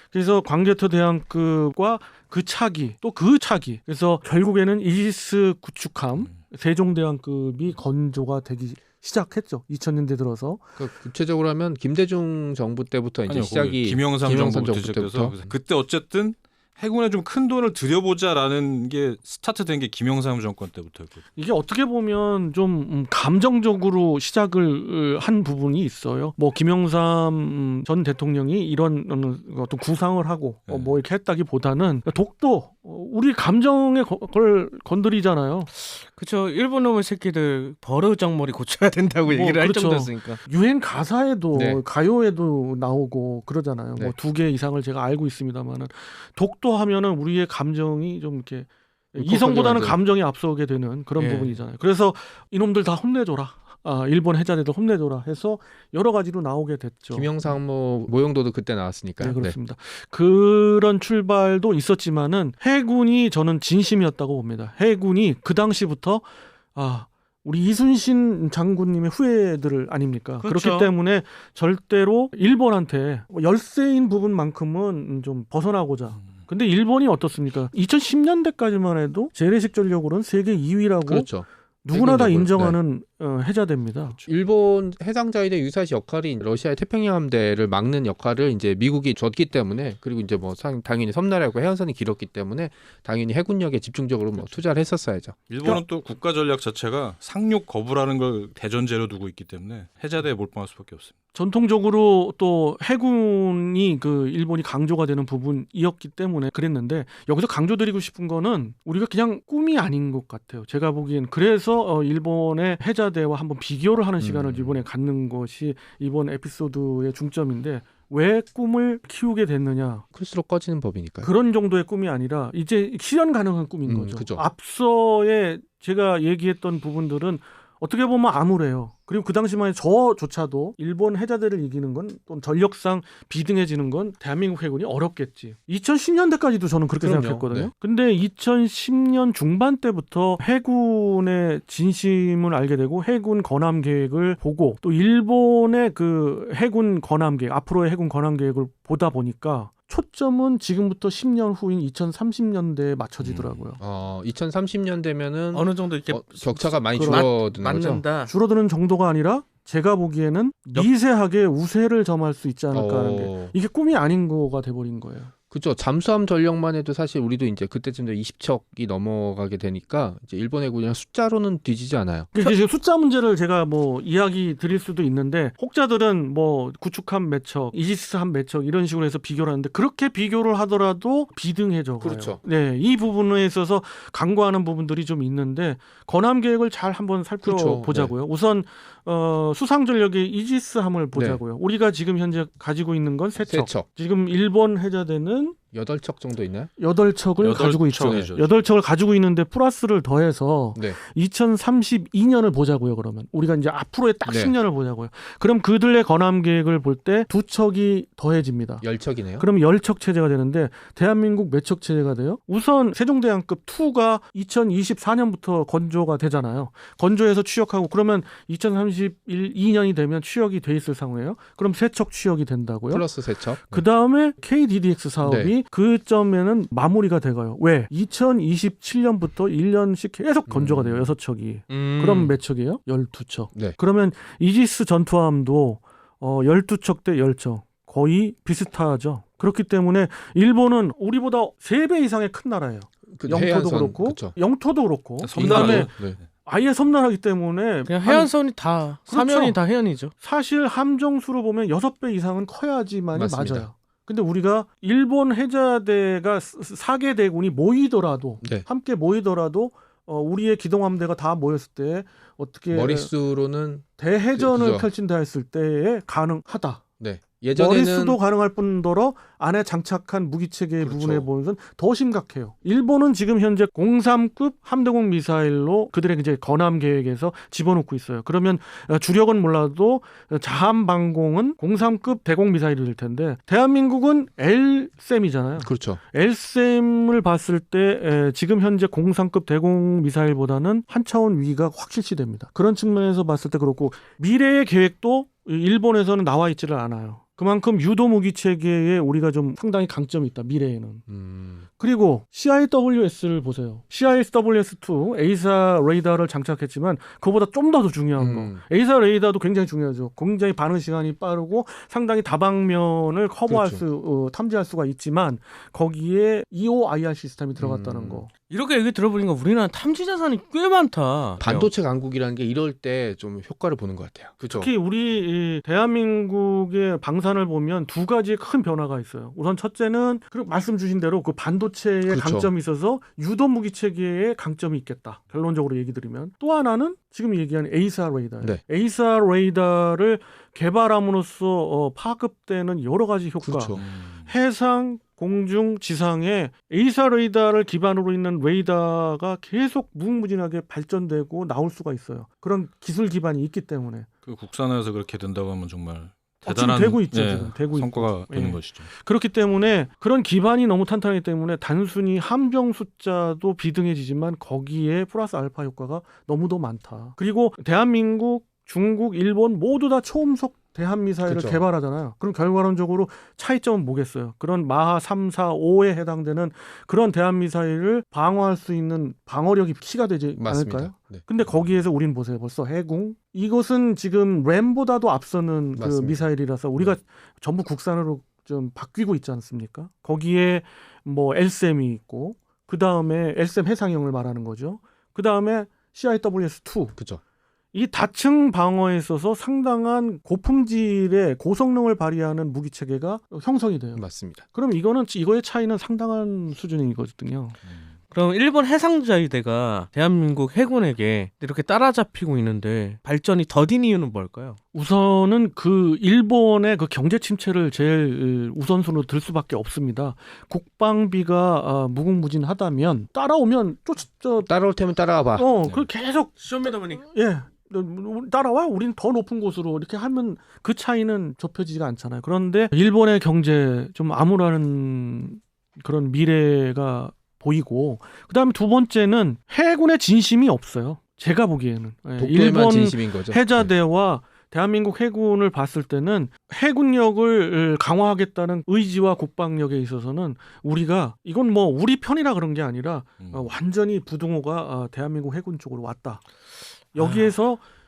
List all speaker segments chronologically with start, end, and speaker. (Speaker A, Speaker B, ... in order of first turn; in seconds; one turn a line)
Speaker A: 0.1-10.6
Speaker B: 10.8-15.5
Speaker C: 13.2-21.2
Speaker A: 21.4-35.7
Speaker C: 30.7-30.9
Speaker D: 35.7-40.4
Speaker A: 39.3-57.5
Speaker B: 41.5-41.8
Speaker B: 49.2-50.0
Speaker D: 51.2-51.6
Speaker B: 57.1-59.5
Speaker A: 59.2-84.2
Speaker D: 70.4-70.9
Speaker B: 81.1-82.8
Speaker B: 84.2-95.8
Speaker C: 95.5-101.1
Speaker A: 101.3-120.0
Speaker B: 114.2-114.8
Speaker B: 120.1-121.3
Speaker A: 121.2-153.8
Speaker B: 123.8-124.4
Speaker B: 137.0-137.7
Speaker C: 153.2-153.6
Speaker B: 153.8-158.0
Speaker D: 155.5-158.3
Speaker A: 156.9-157.3
Speaker A: 158.3-165.3
Speaker B: 162.7-163.5
Speaker B: 165.5-172.5
Speaker A: 172.3-195.6
Speaker B: 182.0-182.4
Speaker B: 187.4-188.1
Speaker B: 191.1-191.4
Speaker B: 193.5-193.8
Speaker B: 195.7-196.7
Speaker A: 196.8-208.8
Speaker C: 197.4-198.6
Speaker B: 198.0-198.3
Speaker B: 204.2-204.5
Speaker B: 208.8-209.4
Speaker A: 209.4-223.1
Speaker B: 222.9-223.8
Speaker A: 223.6-245.9
Speaker B: 225.2-225.5
Speaker B: 230.5-231.1
Speaker D: 231.7-232.4
Speaker B: 243.1-244.3
Speaker C: 245.2-246.2
Speaker B: 245.3-246.2
Speaker A: 246.4-248.3
Speaker D: 247.8-250.1
Speaker A: 249.1-249.6
Speaker A: 250.2-263.1
Speaker B: 253.1-253.7
Speaker B: 262.7-264.9
Speaker A: 264.0-266.8
Speaker B: 267.0-268.2
Speaker A: 267.5-301.0
Speaker B: 270.8-271.2
Speaker B: 285.6-286.0
Speaker B: 301.1-301.6
Speaker A: 301.7-318.3
Speaker B: 308.1-308.6
Speaker B: 313.5-313.8
Speaker B: 317.6-318.2
Speaker D: 318.5-321.7
Speaker B: 321.4-324.7
Speaker A: 324.5-354.1
Speaker B: 332.1-332.5
Speaker B: 343.4-343.9
Speaker C: 343.7-344.3
Speaker C: 354.2-358.9
Speaker A: 356.4-396.9
Speaker B: 371.2-371.6
Speaker B: 380.4-381.4
Speaker B: 385.8-386.9
Speaker A: 397.7-407.6
Speaker B: 403.9-404.4
Speaker D: 408.1-414.6
Speaker A: 414.7-424.5
Speaker B: 424.4-425.8
Speaker A: 425.3-426.4
Speaker D: 426.4-427.0
Speaker A: 426.9-456.2
Speaker B: 442.2-443.7
Speaker C: 453.2-453.5
Speaker A: 456.9-457.6